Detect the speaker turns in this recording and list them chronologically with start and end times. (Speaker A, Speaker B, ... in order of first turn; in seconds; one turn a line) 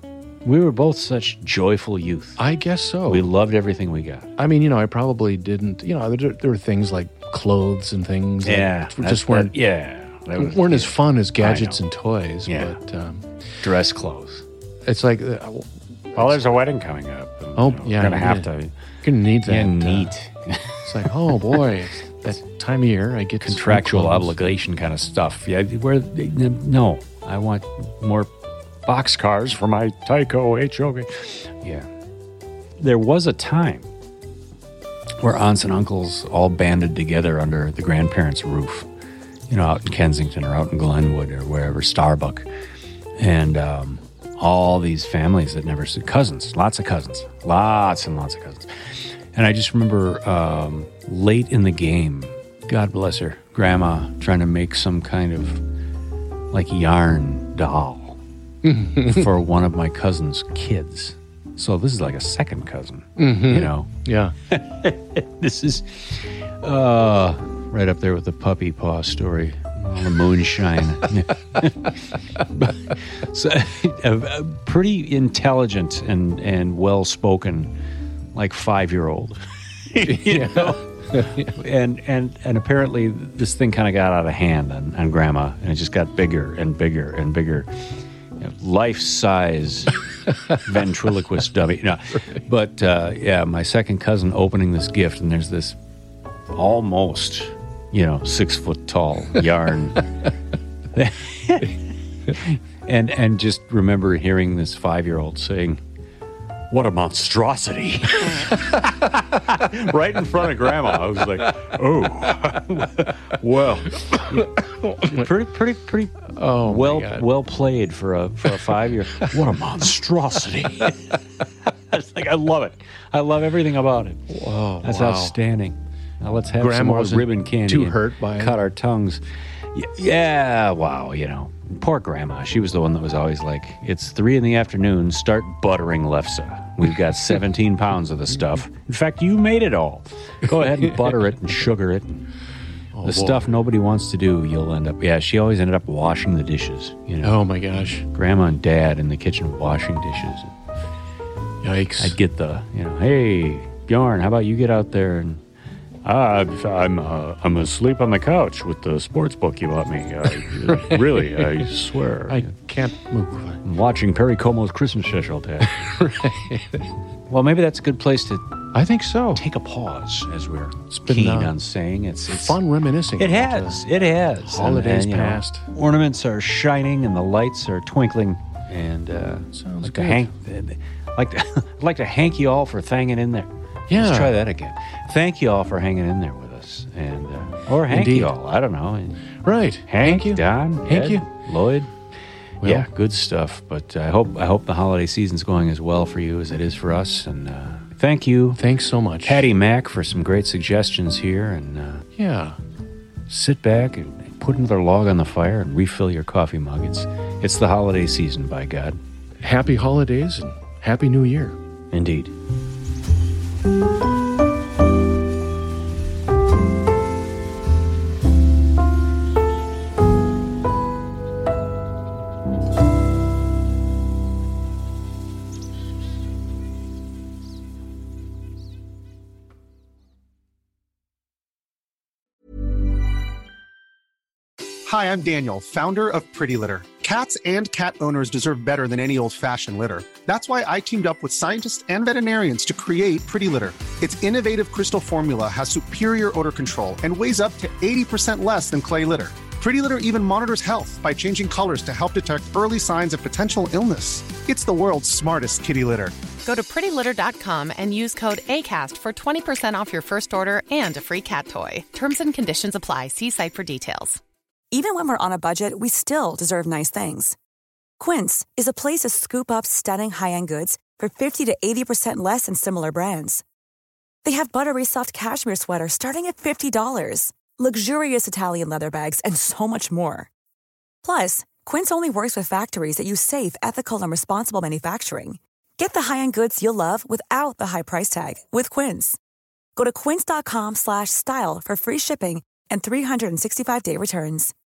Speaker A: 0.4-2.4
Speaker B: 2.4-3.3
Speaker A: 3.1-4.3
Speaker B: 4.4-9.5
Speaker A: 8.4-11.8
Speaker B: 10.4-13.3
Speaker A: 12.4-12.8
Speaker A: 13.6-14.5
Speaker B: 14.8-16.4
Speaker A: 16.1-18.7
Speaker B: 17.6-18.5
Speaker B: 19.0-20.1
Speaker A: 19.5-21.6
Speaker B: 20.8-24.4
Speaker A: 23.4-28.3
Speaker A: 28.9-31.9
Speaker A: 32.8-33.9
Speaker A: 35.2-38.9
Speaker A: 39.5-42.5
Speaker A: 43.2-55.6
Speaker A: 56.5-58.2
Speaker B: 58.6-59.3
Speaker A: 59.1-63.9
Speaker B: 63.2-64.3
Speaker A: 64.5-77.8
Speaker A: 78.3-90.0
Speaker B: 80.0-81.5
Speaker A: 90.6-95.8
Speaker A: 96.5-100.1
Speaker A: 100.9-101.8
Speaker A: 102.3-105.8
Speaker A: 106.7-124.2
Speaker B: 114.1-115.3
Speaker B: 116.3-117.3
Speaker B: 124.3-125.4
Speaker A: 124.8-129.2
Speaker B: 126.6-128.6
Speaker A: 129.7-142.2
Speaker B: 142.9-143.5
Speaker A: 143.0-150.5
Speaker B: 147.2-148.1
Speaker B: 151.6-152.2
Speaker A: 152.0-155.4
Speaker A: 156.0-162.5
Speaker B: 160.7-161.6
Speaker B: 162.3-163.6
Speaker A: 163.6-165.8
Speaker B: 165.7-166.9
Speaker A: 167.3-168.4
Speaker B: 168.7-169.4
Speaker A: 169.3-172.6
Speaker B: 170.9-171.5
Speaker B: 172.3-173.8
Speaker A: 173.2-189.2
Speaker B: 174.5-175.7
Speaker B: 179.5-180.3
Speaker B: 183.9-184.4
Speaker B: 187.9-188.3
Speaker B: 189.4-191.2
Speaker A: 189.9-191.9
Speaker B: 192.6-192.9
Speaker A: 192.6-198.6
Speaker B: 198.6-199.5
Speaker A: 199.2-202.1
Speaker B: 202.2-202.6
Speaker A: 203.3-209.0
Speaker B: 209.4-211.6
Speaker A: 211.9-212.3
Speaker C: 234.9-256.1
Speaker D: 256.4-264.2
Speaker E: 264.7-267.4
Speaker E: 268.0-273.4
Speaker E: 274.2-280.3
Speaker E: 281.0-289.2
Speaker E: 289.8-294.5